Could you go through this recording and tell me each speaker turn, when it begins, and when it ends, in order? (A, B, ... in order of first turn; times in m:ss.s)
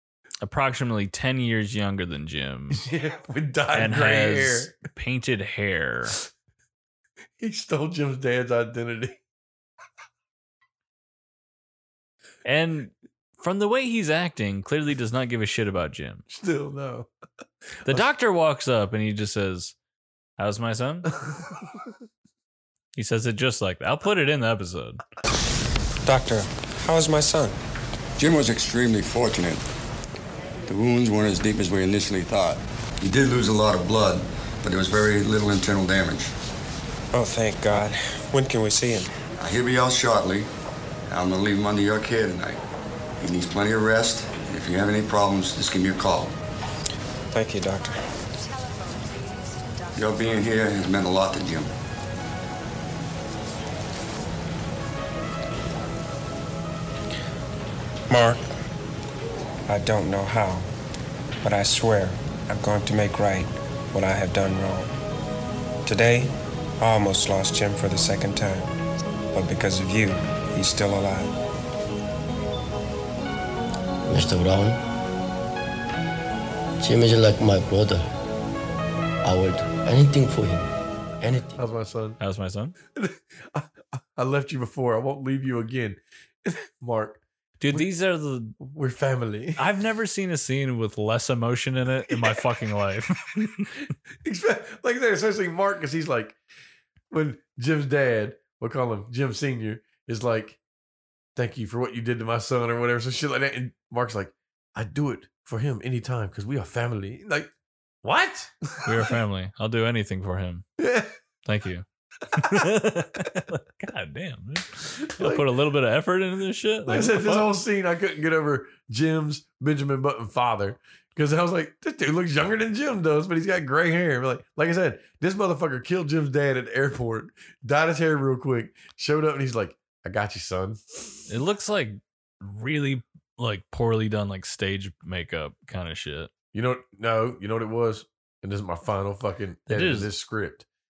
0:00.4-0:02.8 A
0:02.7-0:04.7 B
0:03.7-0:06.2 A
0:07.4-0:09.2 B
0:12.4-0:16.2 A
0:16.3-0:17.1 B
0:17.8-0:19.8 A
0:20.4-0:21.1 A
0:21.2-0:21.9 B
0:22.9-0:25.0 A
0:26.0-0:27.6 C
0:28.2-0:29.6 D
0:30.7-0:36.3 D
0:37.1-0:39.1 C
0:39.3-0:40.5 D
0:41.1-0:42.6 D
0:43.2-0:46.4 D
0:47.3-0:48.2 C
0:49.9-0:51.7 D
0:58.1-0:58.5 C
0:59.7-1:00.7 C
1:01.4-1:04.9 C
1:05.8-1:08.7 C
1:09.3-1:11.3 C
1:14.1-1:14.8 E
1:16.8-1:18.1 E
1:19.2-1:20.7 E
1:21.2-1:21.6 E
1:21.6-1:22.2 B
1:22.2-1:22.8 A
1:22.9-1:27.9 B
1:27.6-1:28.6 A
1:28.6-1:29.6 B
1:29.6-1:33.8 A
1:32.1-1:32.4 B
1:34.2-1:36.4 B
1:37.1-1:40.6 B
1:41.4-1:47.5 B
1:48.0-1:49.0 B
1:48.8-1:50.6 A
1:50.8-1:51.1 B
1:51.4-1:57.5 A
1:55.2-1:55.4 B
1:56.9-2:11.1 B
2:11.3-2:16.3 A
2:16.5-2:20.6 B
2:19.7-2:20.1 A